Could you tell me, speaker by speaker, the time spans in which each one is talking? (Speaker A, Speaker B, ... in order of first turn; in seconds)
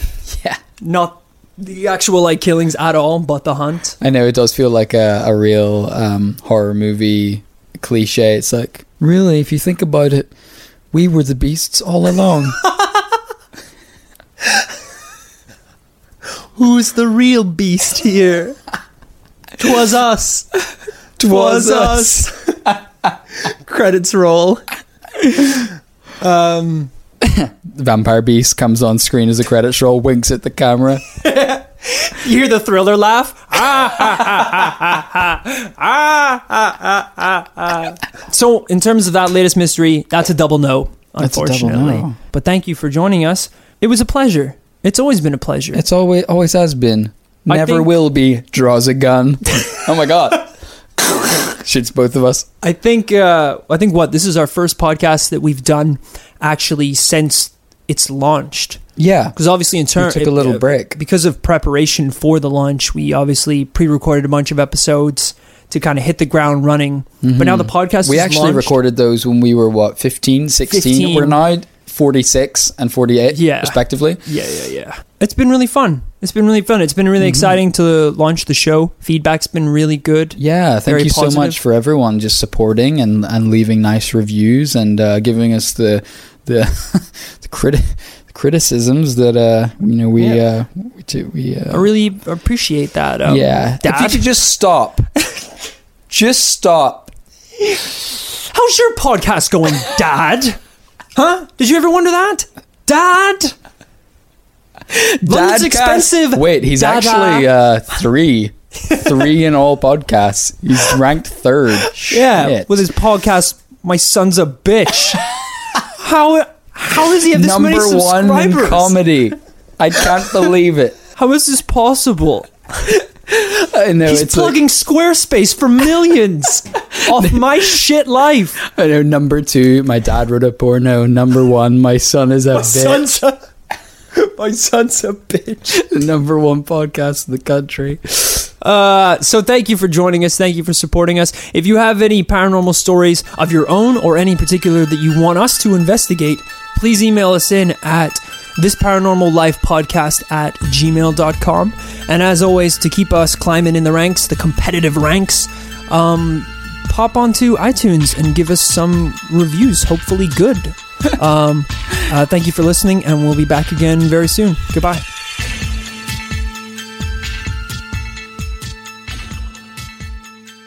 Speaker A: 0.3-0.6, 4.0-10.3, 10.9-12.6, 21.2-22.7, 27.2-31.0, 41.2-42.1, 45.7-50.5, 51.0-52.5, 59.0-59.3, 60.0-61.0, 67.2-74.2, 77.2-77.6, 80.4-91.9, 93.3-95.1, 96.1-97.1, 104.9-112.8, 117.2-121.0, 123.3-124.6, 127.0-127.5, 128.6-133.2, 135.7-138.5
Speaker B: 0.8-4.0, 16.6-18.6, 19.6-20.5, 21.2-22.6, 23.4-24.6, 25.3-25.7, 26.2-26.9, 31.2-45.8, 47.5-47.9, 52.6-58.8, 59.3-68.8, 70.7-71.4, 73.3-81.6, 91.7-94.3, 97.7-100.6, 101.1-103.5, 105.2-107.5, 112.0-115.3, 115.9-119.0, 121.2-123.0, 124.0-128.6, 132.5-133.4, 134.1-135.8, 138.6-165.0